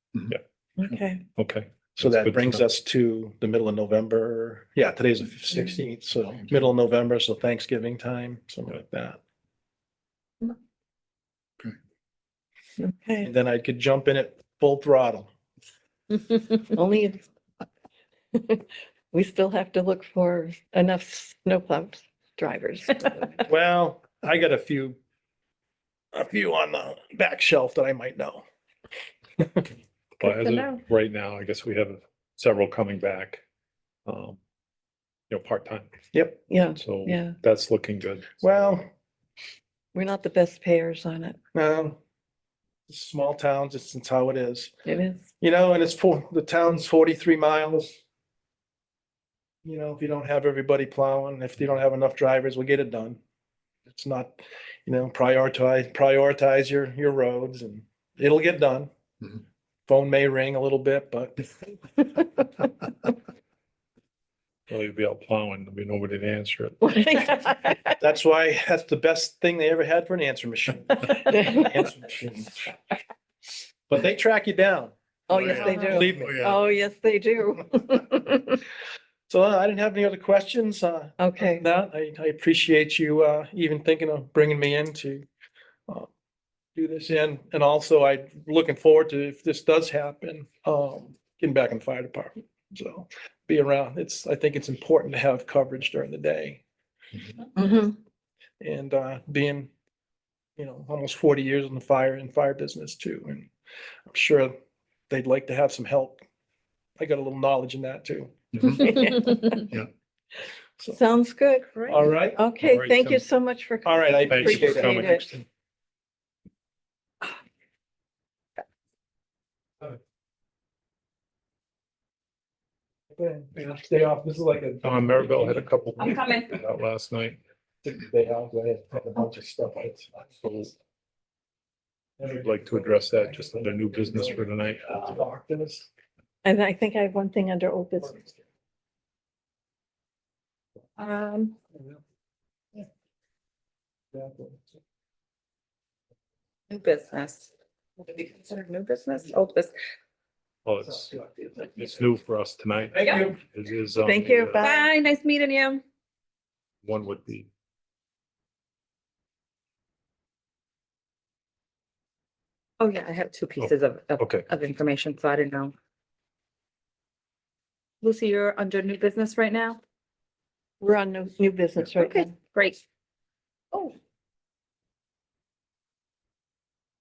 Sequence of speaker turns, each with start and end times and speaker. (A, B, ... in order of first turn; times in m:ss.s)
0:00.8-0:01.2 A
0:01.4-0:02.7 B
0:02.0-0:09.2 C
0:12.8-0:13.3 A
0:13.2-0:15.3 C
0:16.7-0:17.2 A
0:18.3-0:23.3 A
0:23.4-0:25.0 C
0:26.1-0:28.4 C
0:30.2-0:33.4 B
0:30.2-0:30.8 D
0:34.0-0:34.4 B
0:35.3-0:36.0 B
0:36.1-0:36.4 C
0:36.5-0:37.4 A
0:36.8-0:38.6 B
0:38.4-0:38.9 C
0:39.9-0:41.4 A
0:41.5-0:42.0 C
0:42.9-0:44.7 C
0:44.8-0:45.3 A
0:45.4-0:48.0 C
0:49.6-0:53.2 C
0:53.9-0:58.9 C
0:59.9-1:01.5 C
1:04.7-1:06.8 B
1:06.8-1:08.0 A
1:08.0-1:12.7 C
1:11.3-1:11.8 A
1:13.9-1:16.4 C
1:15.3-1:18.6 A
1:15.4-1:15.7 B
1:19.3-1:25.3 C
1:21.2-1:21.6 A
1:26.7-1:36.6 C
1:37.6-1:37.9 A
1:38.6-1:39.7 C
1:40.6-1:43.5 C
1:44.1-1:44.5 C
1:45.1-1:46.2 C
1:47.0-1:49.2 C
1:48.8-1:49.6 A
1:50.9-1:55.3 A
1:51.9-1:52.4 C
1:52.6-1:53.2 B
1:53.8-1:55.1 C
1:54.3-1:55.4 B
2:03.1-2:05.7 C
2:04.8-2:07.4 B
2:06.0-2:06.5 D
2:07.8-2:10.3 C
2:10.4-2:10.7 B
2:12.2-2:15.9 C
2:12.3-2:15.2 B
2:16.4-2:18.3 A
2:21.0-2:21.5 D
2:24.1-2:24.6 C
2:26.7-2:29.7 D
2:30.6-2:34.6 B
2:31.1-2:31.6 C
2:33.0-2:33.3 C
2:34.0-2:34.9 A
2:34.6-2:35.8 D
2:36.8-2:37.5 B
2:42.8-2:45.7 D
2:43.6-2:44.4 B
2:48.0-2:49.8 D
2:50.8-2:52.3 A
2:52.0-2:52.8 D